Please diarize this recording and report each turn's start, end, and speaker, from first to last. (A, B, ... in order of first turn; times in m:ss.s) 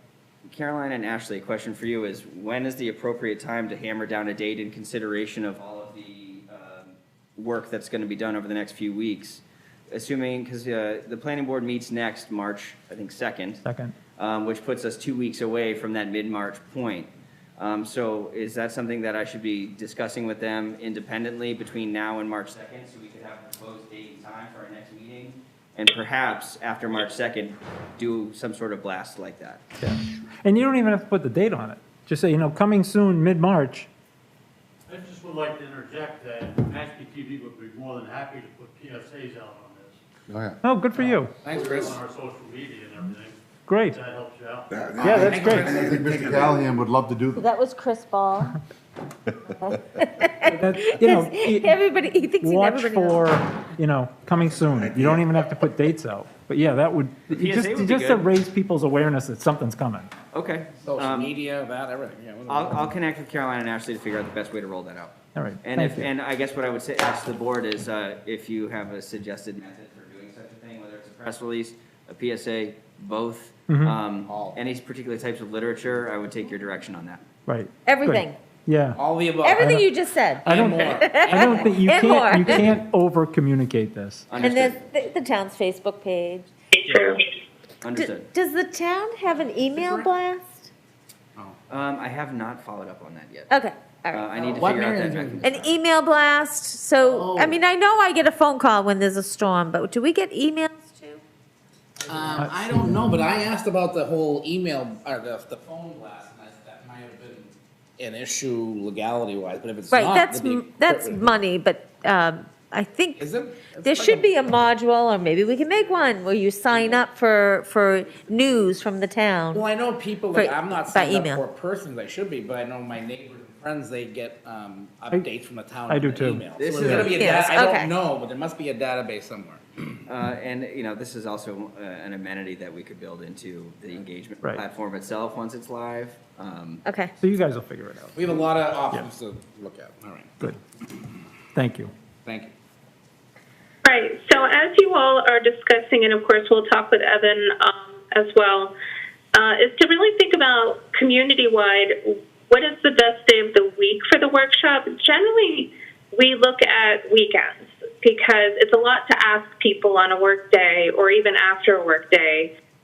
0:00.5-0:13.6 A
0:13.6-0:13.9 B
0:14.2-0:29.6 A
0:29.8-0:33.9 B
0:34.9-0:40.0 C
0:40.6-0:41.4 B
0:41.0-0:42.0 D
0:41.5-0:43.4 C
0:43.7-0:44.0 B
0:43.9-0:44.7 C
0:44.7-0:46.8 E
0:45.0-0:45.8 B
0:45.0-0:47.4 F
0:45.3-0:45.8 D
0:47.4-0:48.6 G
0:49.6-0:53.3 G
0:50.4-0:51.8 B
0:52.4-1:00.1 B
0:54.4-0:55.3 E
0:57.3-0:58.3 A
1:00.3-1:01.3 A
1:00.8-1:02.7 D
1:02.5-1:17.2 A
1:05.3-1:06.1 B
1:13.7-1:14.0 B
1:14.3-1:14.6 D
1:17.5-1:19.0 B
1:17.8-1:18.4 G
1:19.0-1:19.6 D
1:19.4-1:22.7 G
1:19.6-1:19.8 B
1:20.4-1:21.8 D
1:20.4-1:24.3 B
1:24.3-1:24.8 A
1:24.3-1:26.5 G
1:26.9-1:27.2 H
1:27.8-1:28.3 A
1:28.0-1:30.7 G
1:29.3-1:30.1 D
1:31.7-1:33.5 A
1:33.5-1:34.3 G
1:34.1-1:35.7 A
1:34.3-1:35.7 D
1:35.4-1:41.2 G
1:37.0-1:37.6 D
1:42.1-1:51.4 D
1:42.2-1:43.2 B
1:49.9-1:59.7 G
1:53.2-1:54.6 D
1:55.8-1:56.1 D
1:56.7-1:57.0 D
1:59.5-2:10.0 D
2:00.3-2:01.4 G
2:05.9-2:07.1 B
2:06.6-2:07.1 A
2:07.1-2:07.9 G
2:10.1-2:16.8 A
2:16.8-2:17.1 G
2:17.2-2:19.1 B
2:18.2-2:20.4 D
2:21.5-2:21.9 B
2:22.2-2:22.5 D
2:23.8-2:28.7 H
2:29.3-2:42.5 H